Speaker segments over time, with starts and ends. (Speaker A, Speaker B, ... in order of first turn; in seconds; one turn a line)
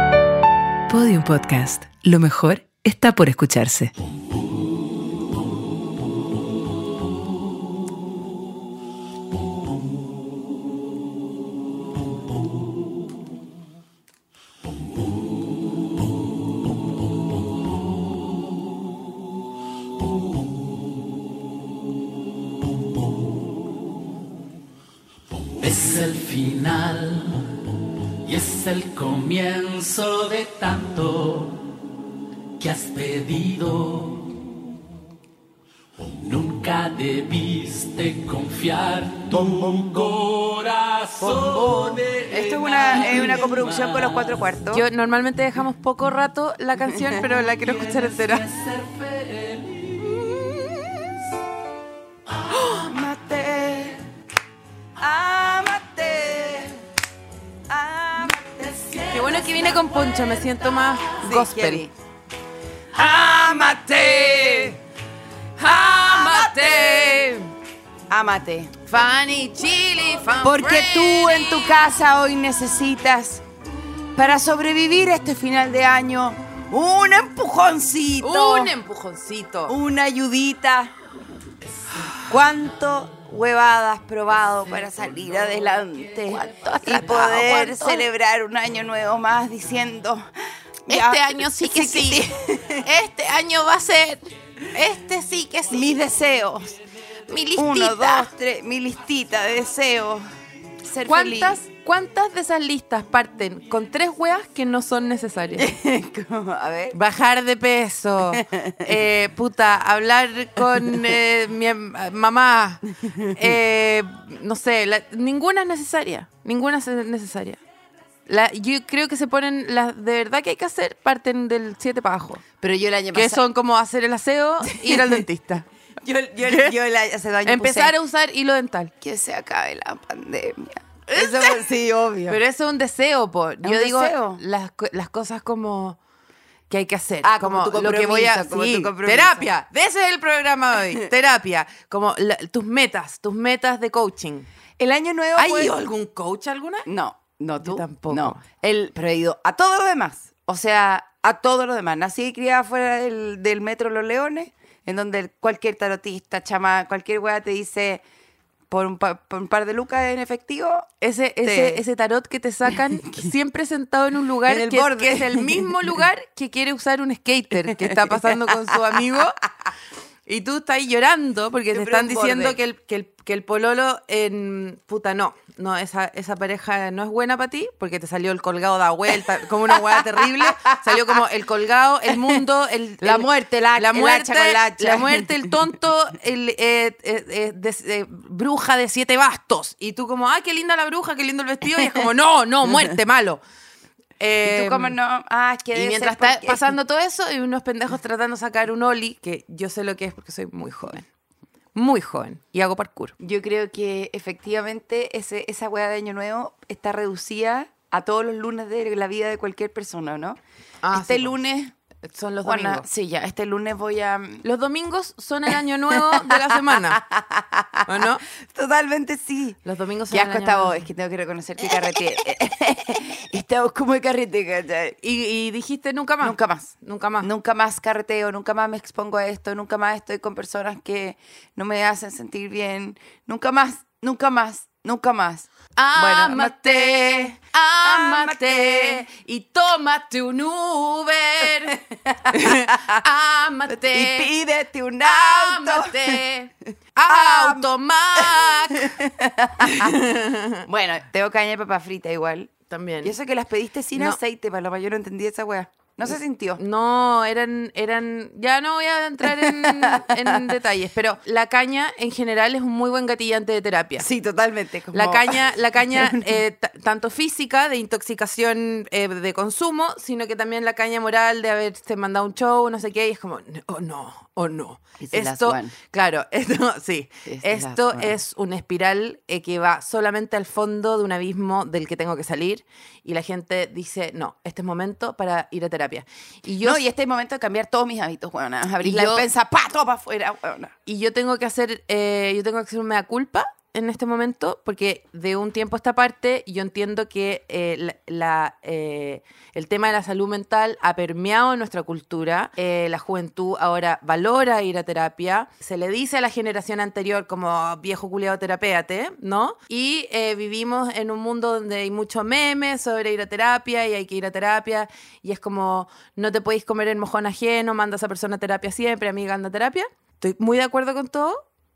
Speaker A: 0.9-3.9
Speaker B: 25.6-31.8
Speaker B: 32.6-34.5
Speaker B: 36.0-44.4
Speaker C: 41.2-44.8
Speaker D: 44.7-48.5
Speaker C: 46.9-48.5
Speaker B: 48.5-49.9
Speaker C: 50.1-51.0
Speaker C: 52.5-54.0
Speaker C: 55.0-56.9
Speaker C: 57.7-59.8
Speaker D: 59.1-61.9
Speaker C: 61.2-61.9
Speaker C: 62.9-64.8
Speaker C: 65.6-67.2
Speaker D: 65.6-67.5
Speaker C: 68.1-68.8
Speaker D: 68.9-71.9
Speaker C: 70.4-73.4
Speaker C: 74.2-78.7
Speaker D: 78.2-79.8
Speaker C: 79.7-80.9
Speaker C: 82.2-90.3
Speaker D: 86.0-88.1
Speaker C: 90.9-92.9
Speaker D: 90.9-95.9
Speaker C: 95.7-96.8
Speaker D: 97.3-98.3
Speaker C: 97.6-100.2
Speaker C: 100.8-101.6
Speaker D: 101.0-105.7
Speaker C: 105.6-107.0
Speaker D: 106.9-117.6
Speaker C: 108.3-109.0
Speaker C: 113.0-113.5
Speaker D: 118.3-122.5
Speaker C: 122.6-123.4
Speaker D: 123.1-125.7
Speaker C: 124.7-125.3
Speaker C: 126.0-128.0
Speaker D: 126.5-126.7
Speaker D: 127.5-128.9
Speaker C: 129.0-132.4
Speaker D: 131.1-131.6
Speaker D: 132.3-136.0
Speaker C: 133.6-134.4
Speaker D: 136.7-144.5
Speaker C: 137.2-139.5
Speaker C: 144.8-145.8
Speaker D: 145.4-146.9
Speaker C: 146.9-158.0
Speaker D: 147.6-148.4
Speaker C: 158.7-160.9
Speaker D: 161.0-169.4
Speaker C: 161.4-161.8
Speaker C: 162.7-163.3
Speaker C: 164.5-166.0
Speaker C: 167.7-168.8
Speaker D: 170.3-193.4
Speaker C: 171.7-172.6
Speaker C: 179.7-181.2
Speaker C: 182.1-182.4
Speaker C: 183.0-185.6
Speaker D: 194.2-194.9
Speaker C: 194.4-196.7
Speaker D: 195.8-201.1
Speaker D: 201.7-203.2
Speaker C: 203.2-210.4
Speaker D: 210.8-211.3
Speaker C: 210.9-211.7
Speaker D: 212.0-212.8
Speaker C: 212.4-214.4
Speaker D: 214.4-217.1
Speaker C: 215.9-219.6
Speaker D: 217.8-218.2
Speaker D: 219.7-220.8
Speaker C: 220.1-225.0
Speaker D: 225.0-227.3
Speaker C: 226.2-239.1
Speaker D: 235.8-241.8
Speaker C: 241.7-243.0
Speaker D: 242.3-244.3
Speaker C: 243.7-246.2
Speaker D: 245.0-248.9
Speaker C: 247.1-250.0
Speaker D: 249.6-250.7
Speaker C: 250.7-256.6
Speaker D: 252.7-253.2
Speaker D: 256.6-264.1
Speaker C: 259.2-260.5
Speaker C: 264.0-266.4
Speaker D: 264.9-286.8
Speaker C: 275.0-275.7
Speaker C: 277.3-278.2
Speaker C: 286.6-290.7
Speaker D: 288.8-289.3
Speaker D: 290.9-321.4